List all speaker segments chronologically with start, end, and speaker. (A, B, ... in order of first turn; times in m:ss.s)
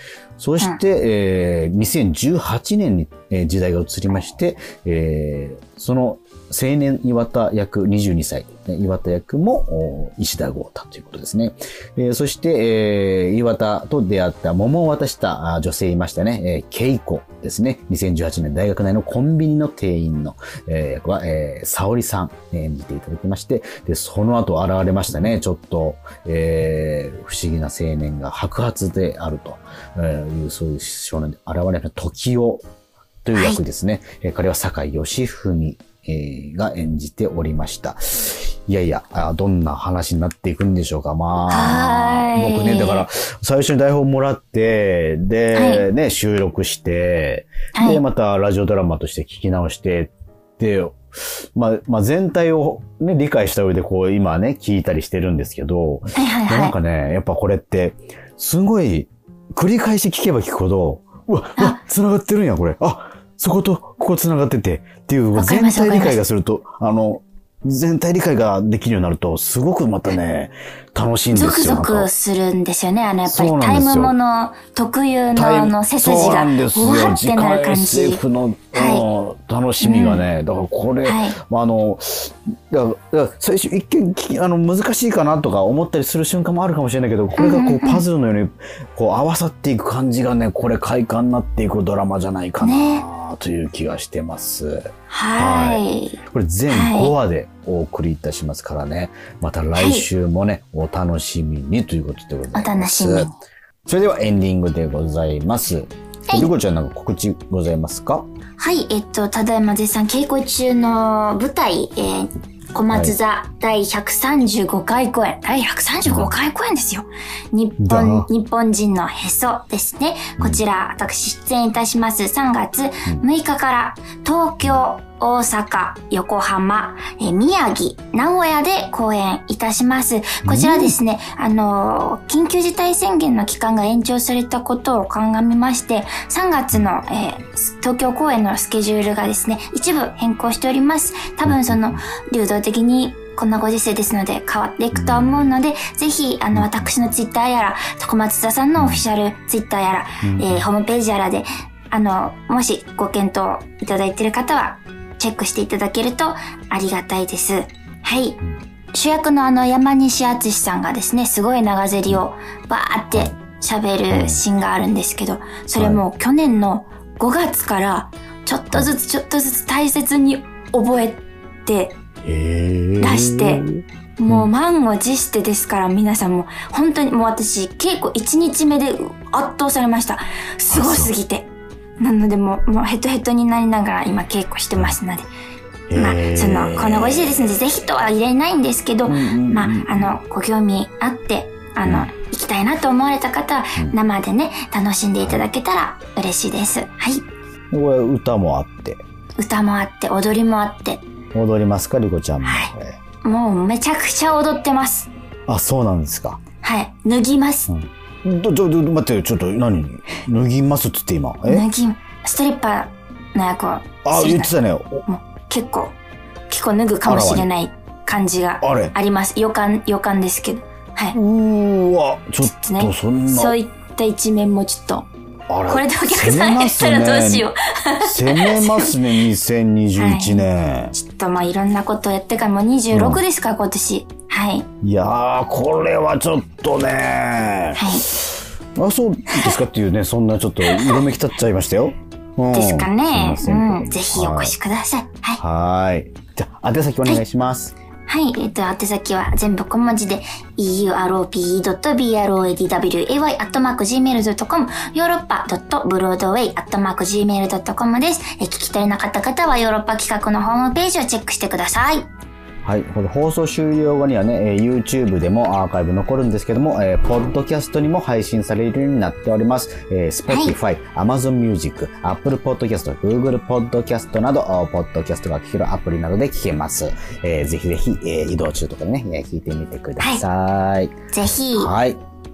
0:00.4-0:32.6 A
0:33.2-0:51.0 A
0:33.3-0:33.6 B
0:41.5-0:43.0 B
0:45.5-0:45.8 B
0:47.7-0:48.0 B
0:51.5-1:12.1 A
0:56.2-0:56.7 B
1:05.3-1:06.2 B
1:11.3-1:18.2 B
1:13.2-1:14.1 A
1:15.3-1:43.3 A
1:18.7-1:19.0 B
1:19.8-1:20.2 B
1:21.0-1:21.4 B
1:27.4-1:28.0 B
1:32.6-1:33.0 B
1:35.1-1:37.1 B
1:39.8-1:40.0 B
1:42.5-1:43.4 B
1:43.8-1:48.3 A
1:48.6-2:38.4 B
1:52.9-1:53.1 A
1:56.0-1:56.3 A
1:57.8-1:58.3 A
2:10.4-2:10.9 A
2:21.4-2:22.0 A
2:24.9-2:25.4 A
2:26.5-2:26.9 A
2:28.8-2:29.0 A
2:30.2-2:30.6 A
2:38.9-2:52.0 B
2:44.1-2:44.4 A
2:45.8-2:46.0 A
2:52.2-2:54.5 A
2:53.0-2:53.6 B
2:54.2-3:05.3 B
3:00.7-3:01.1 A
3:05.9-3:07.5 A
3:05.9-3:17.2 B
3:09.1-3:10.2 A
3:11.8-3:12.1 A
3:15.2-3:15.5 A
3:17.7-3:19.0 A
3:19.4-3:21.0 B
3:21.3-3:23.0 A
3:22.4-3:22.7 B
3:23.2-3:25.1 B
3:25.5-3:26.4 A
3:26.6-3:27.7 B
3:27.7-3:31.6 A
3:31.5-3:34.5 B
3:34.0-3:35.0 A
3:35.0-3:35.9 B
3:36.5-3:41.2 B
3:37.0-3:37.5 A
3:38.6-3:38.9 A
3:41.1-3:43.6 A
3:42.4-3:45.1 B
3:45.5-3:47.5 A
3:45.6-3:49.0 B
3:48.0-3:50.9 A
3:50.0-3:54.6 B
3:52.9-3:53.2 A
3:54.8-3:58.2 A
3:57.8-3:58.1 B
3:58.8-4:04.6 A
4:00.6-4:01.0 B
4:02.5-4:05.4 B
4:05.4-4:07.7 A
4:08.1-4:22.1 B
4:22.6-4:40.9 A
4:30.3-4:30.5 B
4:41.1-4:41.7 B
4:41.5-4:42.0 A